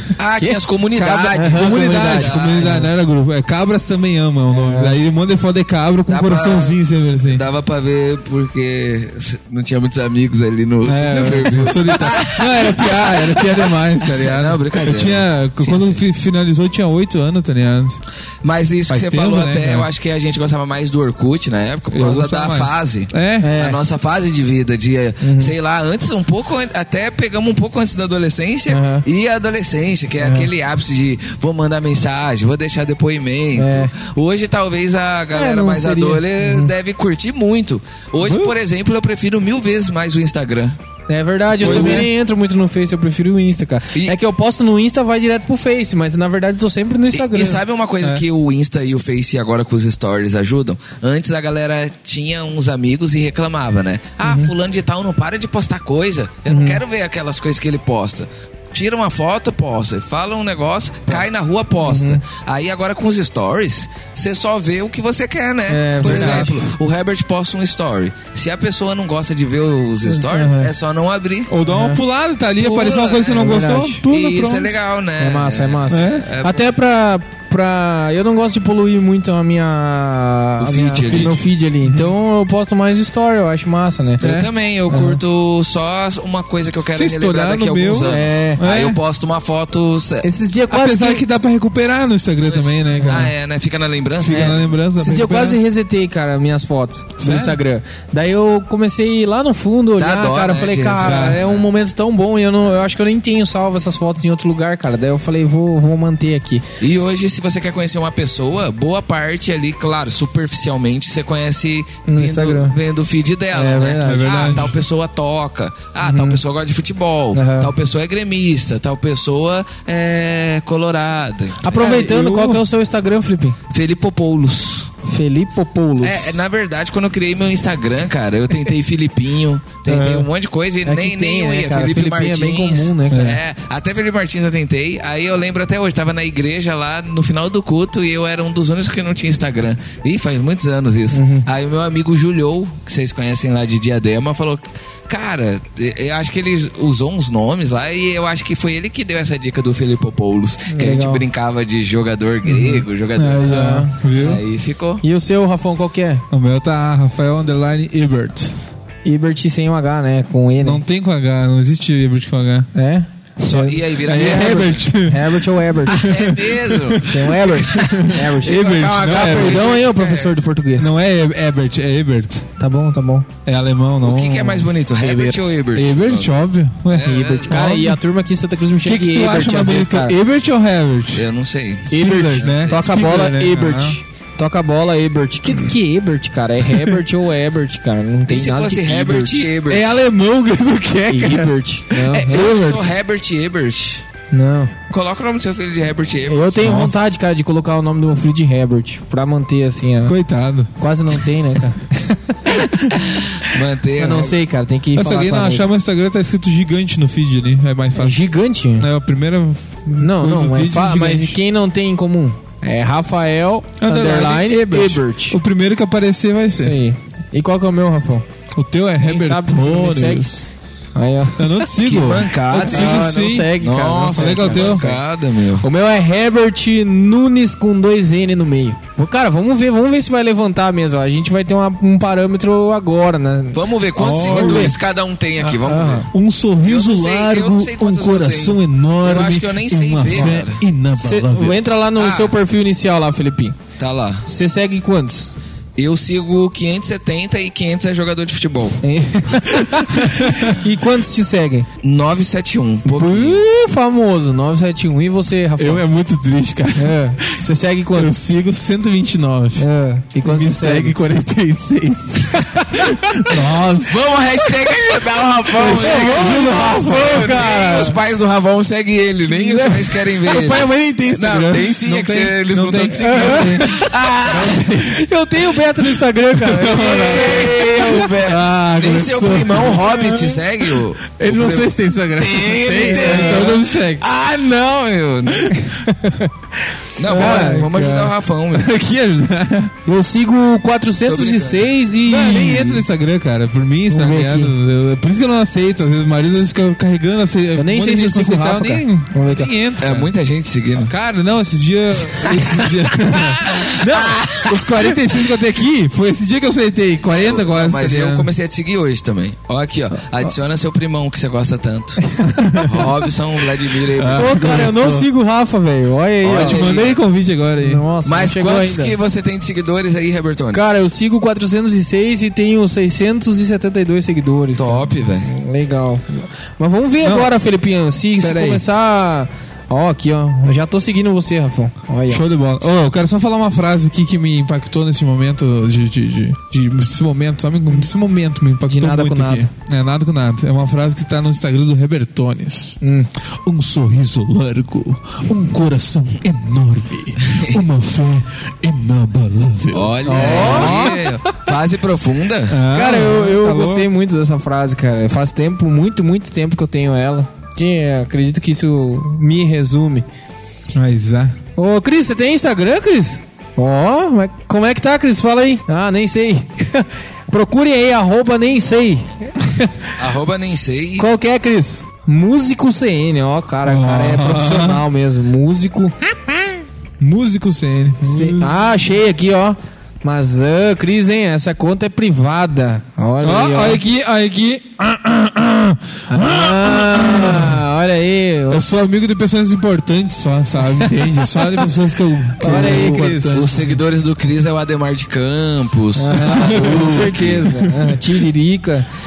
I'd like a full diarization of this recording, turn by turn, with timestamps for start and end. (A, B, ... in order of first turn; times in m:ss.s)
0:00.2-0:02.9 A
0:00.4-0:02.9 B
0:01.2-0:07.4 C
0:04.5-0:05.0 B
0:06.1-0:16.0 A
0:10.8-0:18.0 C
0:18.4-0:40.8 A
0:18.9-0:19.9 C
0:21.9-0:23.5 C
0:23.4-0:23.8 B
0:25.2-0:25.5 B
0:28.7-0:29.0 B
0:30.2-0:30.5 B
0:33.5-0:33.9 B
0:35.3-0:36.7 B
0:38.2-0:38.5 C
0:41.1-0:47.6 B
0:41.5-0:42.1 C
0:41.6-0:42.1 A
0:47.1-1:11.5 A
0:54.2-0:54.5 B
0:56.5-0:56.8 B
1:01.8-1:02.2 B
1:05.7-1:06.7 B
1:06.0-1:06.6 C
1:10.3-1:10.7 B
1:11.5-1:14.8 C
1:11.6-1:12.0 B
1:12.6-1:16.7 A
1:13.3-1:14.0 B
1:15.2-1:24.2 B
1:15.9-1:16.3 C
1:20.6-1:21.4 A
1:21.0-1:22.0 C
1:24.2-1:30.3 A
1:24.2-1:24.5 C
1:24.9-1:25.2 B
1:26.9-1:29.0 C
1:28.0-1:28.6 B
1:30.2-1:31.2 B
1:30.7-1:33.3 C
1:32.4-1:34.8 A
1:32.9-1:33.3 B
1:34.2-1:35.6 C
1:34.3-1:46.6 B
1:37.2-1:37.6 C
1:40.0-1:41.6 A
1:41.0-1:41.4 C
1:46.8-2:02.1 A
1:52.1-1:52.8 B
1:53.5-1:54.5 B
1:54.0-1:54.8 C
1:56.0-1:56.4 B
1:57.3-1:57.7 B
2:01.6-2:03.6 B
2:01.8-2:02.6 C
2:03.7-2:04.9 A
2:05.0-2:06.3 B
2:06.0-2:35.0 A
2:09.9-2:10.2 B
2:10.8-2:13.2 B
2:13.1-2:13.4 C
2:21.1-2:21.4 B
2:30.7-2:31.2 B
2:32.5-2:34.4 C
2:33.4-2:34.0 B
2:35.0-2:36.2 B
2:36.3-2:38.5 C
2:39.0-2:40.8 B
2:40.6-2:42.7 C
2:42.7-2:46.1 B
2:43.4-2:44.9 A
2:44.0-2:49.6 C
2:45.9-2:50.4 A
2:47.1-2:50.9 B
2:50.8-2:52.4 C
2:52.6-2:53.3 B
2:53.4-2:58.0 C
2:54.0-2:57.6 A
2:57.1-3:00.1 B
2:58.8-3:01.2 C
3:01.1-3:03.1 A
3:01.9-3:04.0 C
3:01.9-3:09.4 B
3:08.3-3:10.0 A
3:09.7-3:12.8 C
3:11.1-3:12.5 B
3:12.1-3:14.0 A
3:14.3-3:14.8 B
3:14.9-3:16.7 A
3:16.2-3:20.1 B
3:16.6-3:17.0 C
3:20.0-3:21.1 C
3:20.8-3:22.9 B
3:23.0-3:24.4 A
3:24.0-3:25.6 B
3:24.9-3:31.4 C
3:27.9-3:28.9 B
3:29.9-3:35.4 B
3:33.8-3:36.8 C
3:36.6-3:38.2 B
3:38.5-3:40.4 C
3:39.0-3:40.4 B
3:40.9-3:41.7 B
3:41.4-3:43.6 C
3:41.8-3:45.6 A
3:42.5-3:45.0 B
3:44.1-3:44.8 C
3:45.6-3:54.8 B
3:53.5-4:00.6 A
3:54.0-3:54.7 C
3:55.4-3:56.0 B
3:56.1-4:01.6 C
4:00.1-4:00.4 B
4:01.0-4:03.5 B
4:01.9-4:02.3 A
4:03.8-4:04.2 A
4:04.2-4:05.3 B
4:05.8-4:08.8 A
4:08.8-4:11.7 B
4:09.7-4:10.6 C
4:11.8-4:13.4 A
4:12.8-4:15.8 B
4:15.6-4:17.4 C
4:16.7-4:18.1 B
4:17.9-4:19.7 C
4:19.6-4:21.0 B
4:20.2-4:24.0 C
4:23.4-4:34.6 A
4:25.5-4:27.4 C
4:25.7-4:28.0 B
4:29.3-4:29.9 B
4:30.2-4:35.0 C
4:33.0-4:33.8 B
4:34.9-4:38.1 B
4:36.3-4:44.0 C
4:36.7-4:45.6 A
4:42.6-4:43.6 B
4:45.6-4:46.3 B
4:47.0-4:48.7 A
4:47.1-4:49.7 C
4:47.1-4:47.7 B
4:49.8-4:52.8 B
4:51.0-4:51.7 A
4:52.0-5:00.1 C
4:53.9-4:54.5 B
4:57.6-4:59.5 B
4:59.8-5:00.9 A
5:00.8-5:08.3 C
5:02.1-5:05.2 A
5:07.1-5:14.3 A
5:12.2-5:12.8 C
5:13.9-5:15.1 C
5:14.2-5:16.8 B
5:16.2-5:17.0 A
5:16.3-5:17.8 C
5:17.6-5:19.0 B
5:18.0-5:20.7 A
5:20.5-5:32.2 B
5:24.5-5:25.3 A
5:27.0-5:27.3 C
5:28.2-5:28.6 C
5:32.1-5:42.8 C
5:38.7-5:39.5 B
5:42.8-5:43.1 B
5:43.4-5:50.9 C
5:49.7-5:52.6 A
5:50.0-5:51.3 B
5:52.5-5:53.9 C
5:52.7-6:00.0 B
6:00.7-6:01.4 C
6:01.6-6:09.7 B
6:10.0-6:11.1 A
6:11.0-6:15.9 B
6:13.6-6:14.8 C
6:17.0-6:18.6 C
6:18.0-6:23.8 B
6:23.2-6:27.6 C
6:26.1-6:28.6 B
6:28.5-6:33.8 C
6:32.4-6:33.4 B
6:32.5-6:37.4 A
6:36.0-6:38.9 B
6:36.2-6:38.0 C